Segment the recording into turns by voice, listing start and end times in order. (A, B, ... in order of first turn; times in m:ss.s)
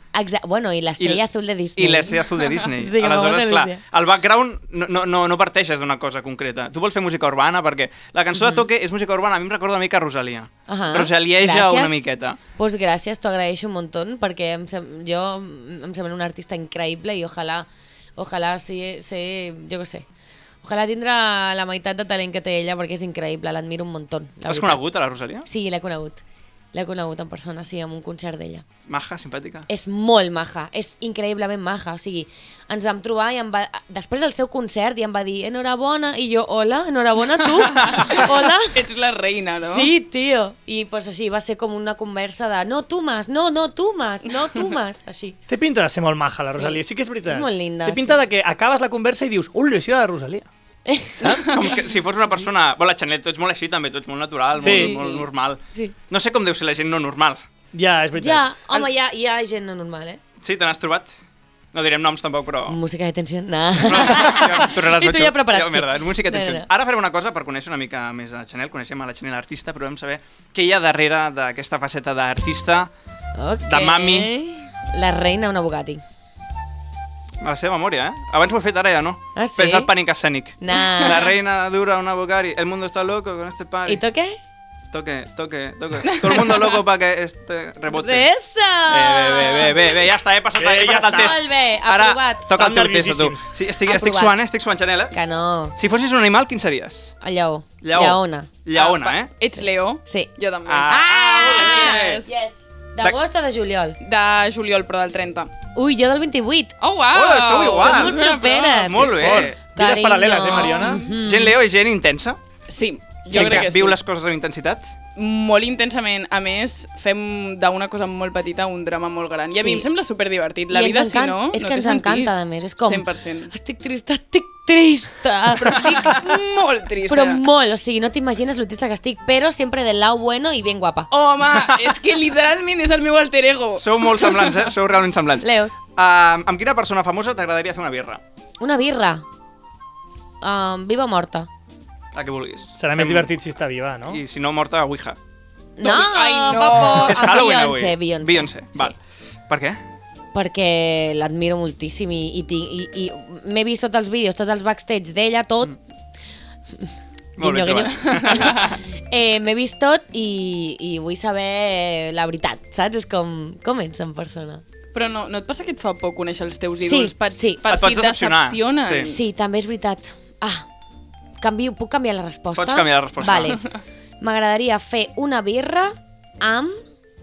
0:00.1-0:03.8 A
0:01.8-0:12.4 B
0:08.4-0:08.6 A
0:10.7-0:12.0 A
0:12.6-0:20.0 A
0:20.6-0:24.8 A
0:24.4-0:25.5 B
0:25.4-0:26.2 A
0:26.7-0:28.6 A
0:28.9-0:29.7 B
0:29.7-0:38.8 A
0:37.6-0:39.9 C
0:39.6-0:45.4 A
0:45.5-0:50.5 D
0:46.5-0:48.2 A
0:50.8-0:51.2 A
0:51.2-0:51.6 D
0:51.4-0:57.4 B
0:54.6-0:54.9 D
0:54.6-0:55.9 A
0:57.7-0:58.4 D
0:58.2-1:00.2 A
1:00.4-1:01.1 B
1:01.7-1:02.8 B
1:02.6-1:06.6 A
1:03.8-1:12.9 B
1:13.4-1:16.0 A
1:13.6-1:14.3 B
1:17.4-1:24.0 B
1:19.4-1:19.9 A
1:20.6-1:21.3 A
1:23.9-1:24.4 A
1:24.9-1:28.3 B
1:26.0-1:26.8 C
1:27.9-1:29.9 A
1:28.9-1:35.1 B
1:30.5-1:31.4 D
1:31.1-1:32.5 A
1:32.5-1:33.4 D
1:33.8-1:34.3 A
1:35.1-1:35.8 A
1:35.8-1:37.1 B
1:37.2-1:38.5 A
1:37.8-1:39.3 B
1:38.7-1:42.3 C
1:39.5-1:40.3 A
1:40.7-1:42.2 B
1:40.8-1:44.0 A
1:44.0-1:45.5 C
1:45.7-1:46.8 A
1:46.8-1:49.3 C
1:47.1-1:48.3 B
1:47.6-1:51.6 A
1:48.8-1:49.6 B
1:49.1-1:51.0 D
1:50.5-1:52.4 B
1:50.5-1:51.0 C
1:52.7-1:53.9 C
1:53.2-1:53.9 A
1:53.3-1:54.9 B
1:55.2-2:03.5 C
1:59.5-1:59.9 A
2:00.7-2:06.0 A
2:05.6-2:06.0 B
2:05.6-2:07.4 C
2:07.1-2:11.1 A
2:11.1-2:14.6 C
2:13.8-2:18.2 B
2:15.4-2:15.8 A
2:18.6-2:19.2 A
2:20.4-2:21.5 A
2:22.1-2:23.3 B
2:22.8-2:24.2 D
2:24.1-2:25.2 B
2:25.8-2:28.9 A
2:25.8-2:27.5 C
2:26.6-2:28.9 B
2:29.5-2:29.8 B
2:30.3-2:35.8 A
2:37.4-2:38.7 B
2:37.4-2:44.6 A
2:37.8-2:38.8 C
2:44.9-2:49.2 C
2:46.8-2:47.6 A
2:47.7-2:49.1 B
2:49.0-2:50.6 A
2:51.4-2:53.6 A
2:52.5-2:53.6 B
2:54.2-2:56.7 A